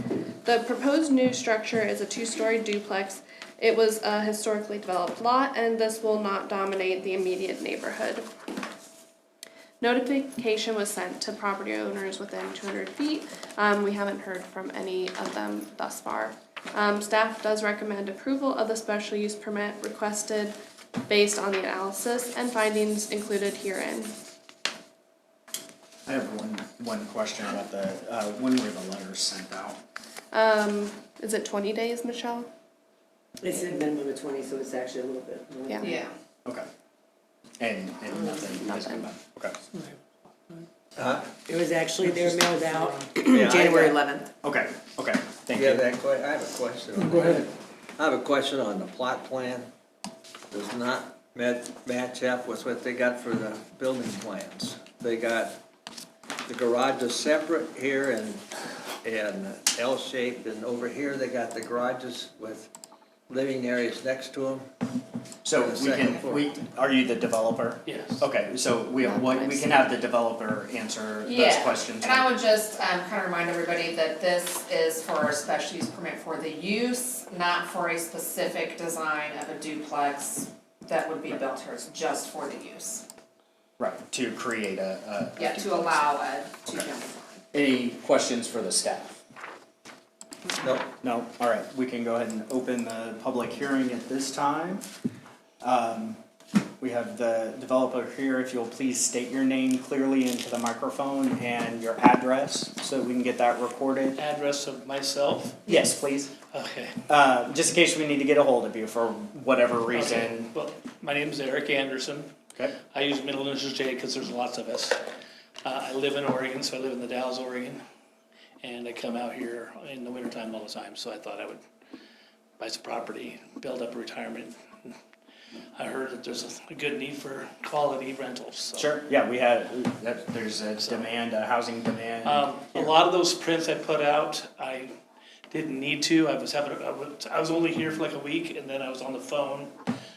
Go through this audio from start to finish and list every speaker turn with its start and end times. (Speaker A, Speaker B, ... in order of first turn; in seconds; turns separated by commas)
Speaker A: 0.4-8.3, Speaker A: 9.8-20.6, Speaker A: 21.1-24.1, Speaker B: 26.1-29.8, Speaker A: 30.3-32.5, Speaker C: 33.4-35.9, Speaker A: 35.7-35.9, Speaker D: 35.8-36.1, Speaker B: 37.6-39.6, Speaker E: 41.0-41.4, Speaker C: 41.4-44.3, Speaker E: 43.1-44.0, Speaker B: 44.4-45.9, Speaker E: 45.6-49.7, Speaker E: 50.5-55.6, Speaker E: 56.5-58.4, Speaker E: 59.0-62.7, Speaker E: 63.3-64.7, Speaker B: 65.5-72.3, Speaker E: 65.6-66.4, Speaker F: 67.9-68.3, Speaker A: 69.1-69.7, Speaker D: 71.2-83.0, Speaker B: 83.8-86.9, Speaker D: 85.4-87.3, Speaker B: 87.5-89.2, Speaker B: 91.0-94.9, Speaker B: 95.6-96.2, Speaker B: 96.8-104.2, Speaker F: 104.2-105.7, Speaker B: 105.7-106.3, Speaker F: 106.5-107.0, Speaker B: 107.1-110.5, Speaker F: 109.9-112.3, Speaker F: 112.9-115.0, Speaker F: 115.6-117.8, Speaker F: 118.6-121.6, Speaker F: 122.6-125.0, Speaker F: 125.8-129.0, Speaker B: 128.8-132.9, Speaker F: 132.2-135.0, Speaker F: 135.5-139.7